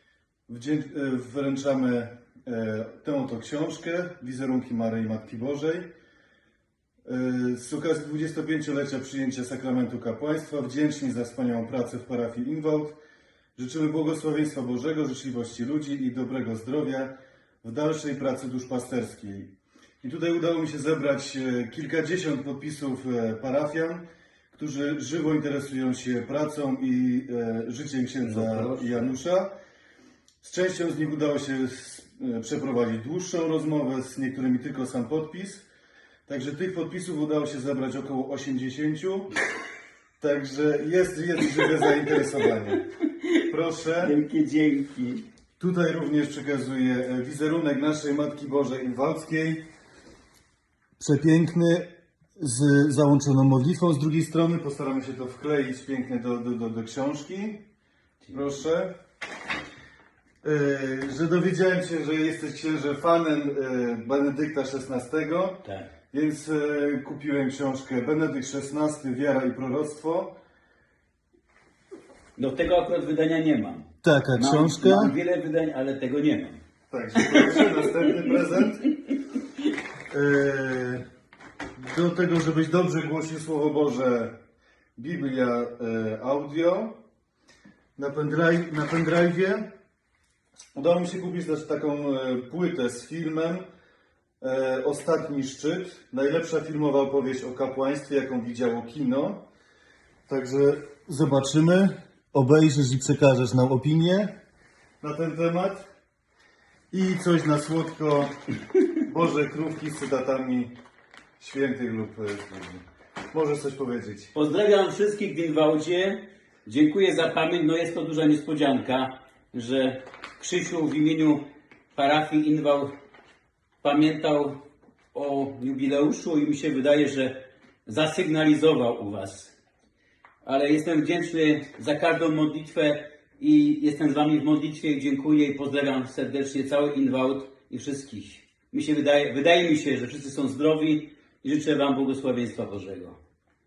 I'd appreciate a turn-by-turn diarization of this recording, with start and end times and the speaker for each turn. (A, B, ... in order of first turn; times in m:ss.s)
0:00.5-0:05.9 A
0:07.0-0:13.0 A
0:13.6-0:29.5 A
0:28.2-0:29.1 B
0:30.4-0:35.7 A
0:36.3-0:39.3 A
0:40.2-0:42.8 A
0:43.5-0:44.2 A
0:44.0-0:45.2 B
0:45.6-0:49.6 A
0:51.0-0:57.6 A
0:58.3-0:58.9 A
1:00.4-1:10.3 A
1:05.6-1:05.9 B
1:12.4-1:16.6 B
1:14.0-1:15.1 A
1:16.9-1:18.9 A
1:17.3-1:17.7 B
1:20.1-1:21.0 A
1:21.8-1:24.3 A
1:25.0-1:27.0 A
1:28.0-1:29.7 A
1:30.8-1:33.6 A
1:34.4-1:39.4 A
1:40.3-1:44.4 A
1:45.0-1:45.8 A
1:46.9-1:48.3 A
1:49.0-1:50.7 A
1:51.4-1:54.3 A
1:54.3-2:01.4 B
2:01.9-2:02.9 B
2:03.8-2:04.6 B
2:05.1-2:09.6 B
2:10.4-2:23.2 B